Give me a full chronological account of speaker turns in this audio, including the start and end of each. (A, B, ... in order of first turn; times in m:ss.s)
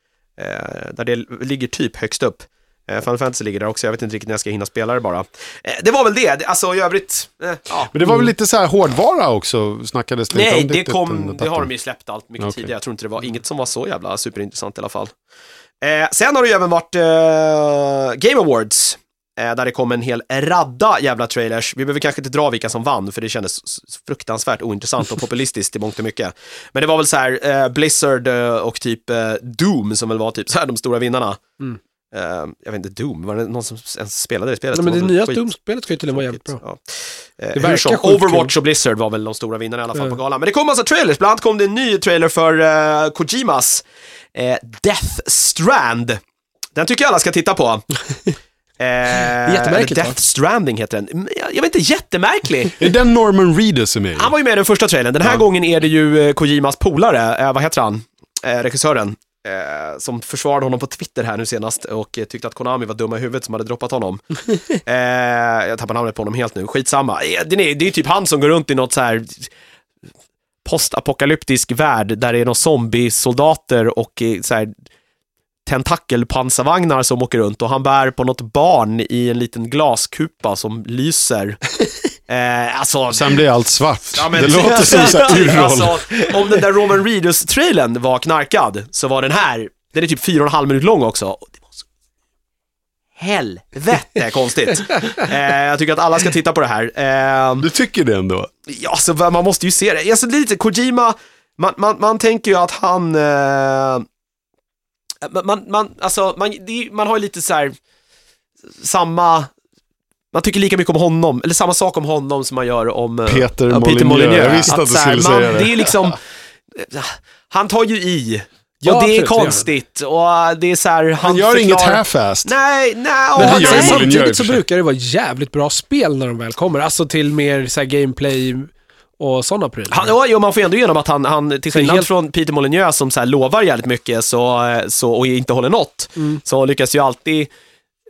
0:00.4-0:07.9 A
0:07.9-0:11.7 B
0:10.3-0:15.1 A
0:12.4-0:12.7 B
0:15.8-0:31.4 A
0:32.1-0:35.5 A
0:34.7-0:36.6 C
0:36.1-0:46.2 A
0:37.6-0:38.5 C
0:46.8-0:47.9 A
0:48.8-0:52.8 A
0:49.4-0:50.2 C
0:52.8-0:54.3 B
0:54.2-1:09.5 A
1:10.6-1:14.7 A
1:15.7-1:21.6 A
1:22.3-1:23.4 A
1:23.1-1:26.1 B
1:24.1-1:31.7 A
1:24.8-1:25.3 C
1:33.2-1:37.7 A
1:37.6-1:38.5 B
1:38.7-1:44.1 A
1:45.2-1:47.8 A
1:48.8-1:49.5 A
1:50.3-1:56.2 A
1:53.3-1:56.0 B
1:56.7-2:04.1 A
1:58.8-1:59.7 C
2:01.2-2:02.6 B
2:03.4-2:04.6 B
2:03.4-2:10.1 C
2:09.9-2:17.5 A
2:11.7-2:12.1 C